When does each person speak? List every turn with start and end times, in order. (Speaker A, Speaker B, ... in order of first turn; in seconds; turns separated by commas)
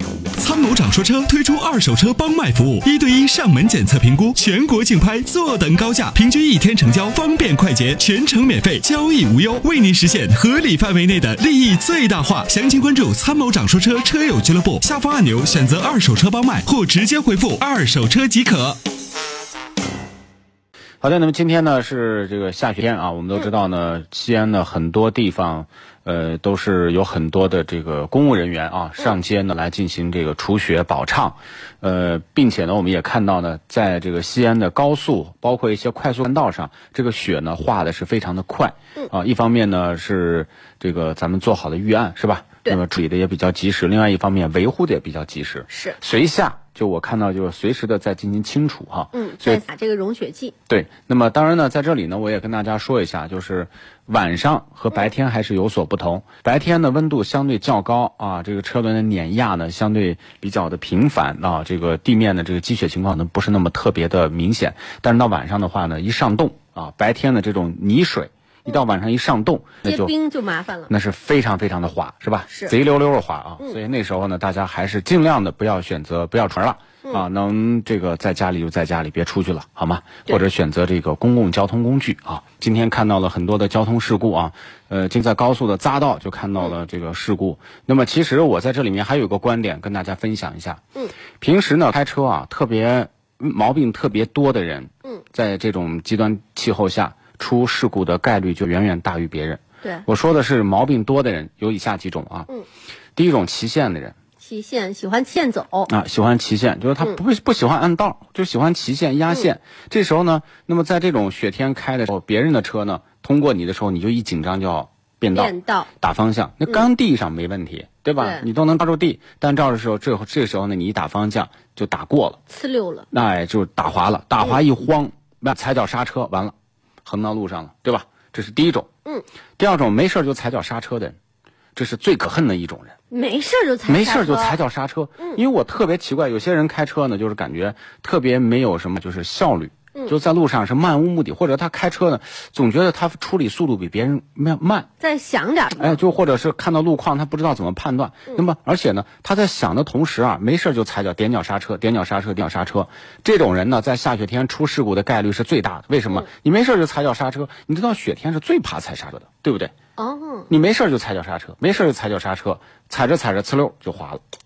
Speaker A: 0.3-18.8, Speaker B: 21.0-49.6, Speaker C: 45.7-46.0, Speaker C: 49.1-50.5, Speaker B: 50.7-70.1, Speaker C: 69.8-70.9, Speaker B: 70.9-90.8, Speaker C: 72.5-72.7, Speaker B: 91.4-102.5, Speaker B: 103.2-104.1, Speaker C: 104.4-105.9, Speaker B: 105.9-122.4, Speaker C: 115.3-115.9, Speaker C: 118.2-118.5, Speaker C: 122.5-123.1, Speaker B: 123.1-126.5, Speaker B: 127.0-128.9, Speaker B: 129.6-131.2, Speaker B: 131.8-132.9, Speaker C: 133.1-134.6, Speaker B: 133.9-144.9, Speaker C: 145.0-146.0, Speaker B: 145.8-159.7, Speaker C: 159.9-160.5, Speaker B: 160.5-164.2